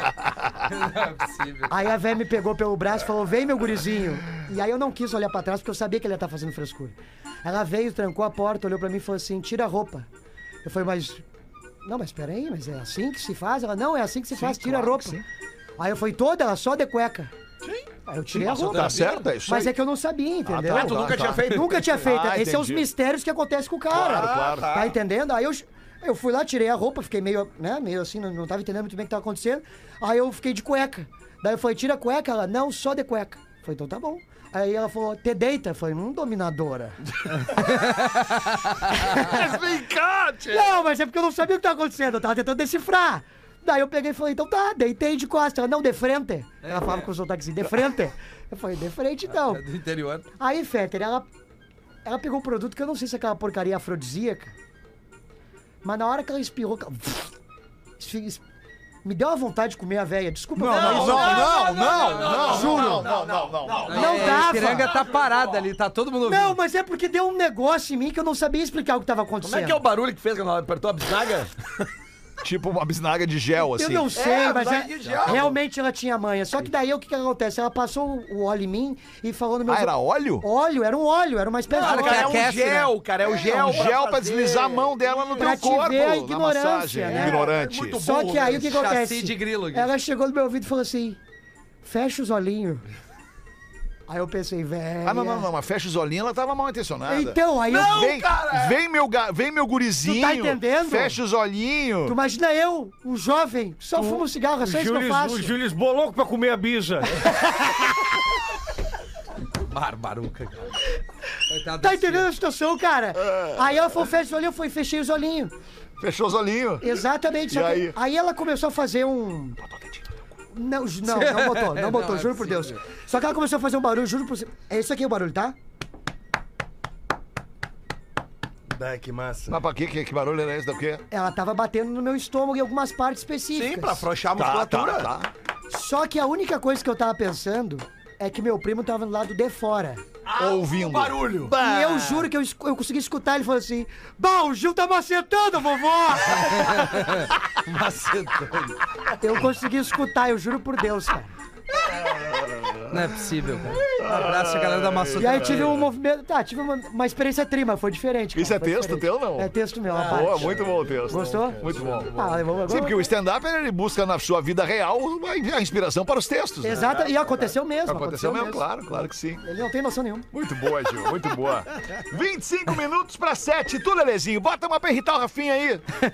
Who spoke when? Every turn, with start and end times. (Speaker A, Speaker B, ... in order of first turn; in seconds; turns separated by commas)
Speaker A: 0.6-1.9, Speaker B: 1.7-10.1, Speaker B: 10.6-11.2, Speaker B: 11.8-15.2, Speaker C: 14.3-15.2, Speaker B: 15.8-17.3, Speaker D: 17.6-19.2, Speaker B: 18.1-37.8, Speaker C: 18.3-19.7, Speaker C: 20.4-22.9, Speaker D: 20.6-22.0, Speaker D: 23.9-24.9, Speaker C: 23.9-24.8, Speaker A: 38.0-38.5, Speaker B: 39.0-39.5, Speaker C: 39.0-40.7, Speaker B: 40.5-49.6, Speaker A: 46.6-47.1, Speaker A: 49.3-50.3, Speaker B: 50.4-51.3, Speaker B: 52.0-54.5, Speaker B: 55.8-57.3, Speaker B: 58.0-58.4, Speaker B: 59.0-63.1, Speaker D: 60.6-65.4, Speaker C: 60.6-64.6, Speaker B: 63.9-64.9, Speaker A: 63.9-66.6, Speaker B: 66.2-69.8, Speaker D: 69.4-71.8, Speaker C: 72.4-74.1, Speaker B: 73.6-82.4, Speaker D: 74.1-75.5, Speaker C: 79.7-80.5, Speaker D: 81.7-85.7, Speaker A: 81.7-82.9, Speaker C: 83.2-88.0, Speaker B: 85.4-91.2, Speaker D: 87.0-88.8, Speaker A: 88.5-89.9, Speaker B: 91.8-92.8, Speaker B: 94.1-95.5, Speaker C: 95.0-102.2, Speaker B: 97.1-98.1, Speaker D: 97.7-98.8, Speaker B: 100.0-101.2, Speaker B: 102.0-105.5, Speaker E: 103.9-107.3, Speaker B: 107.4-107.8, Speaker A: 109.7-110.7, Speaker A: 111.5-112.3, Speaker B: 111.8-115.5, Speaker C: 113.1-113.9, Speaker C: 116.0-118.0, Speaker B: 116.8-119.6, Speaker C: 119.6-120.2, Speaker B: 120.5-125.5, Speaker A: 121.0-122.8, Speaker E: 128.7-129.6, Speaker C: 129.5-131.0, Speaker B: 131.1-134.0, Speaker D: 133.5-135.1, Speaker C: 134.3-135.3, Speaker B: 135.7-140.0, Speaker D: 140.2-141.6, Speaker C: 140.3-142.1, Speaker B: 141.5-147.0, Speaker A: 146.4-148.8, Speaker B: 149.2-151.3, Speaker C: 151.8-152.9, Speaker A: 152.9-155.8, Speaker C: 153.9-155.9, Speaker B: 155.2-163.1, Speaker C: 158.3-159.5, Speaker C: 160.1-166.9, Speaker E: 160.1-160.9, Speaker B: 166.6-168.6, Speaker D: 166.7-167.4, Speaker C: 167.8-169.4, Speaker B: 169.4-170.3, Speaker C: 170.3-175.8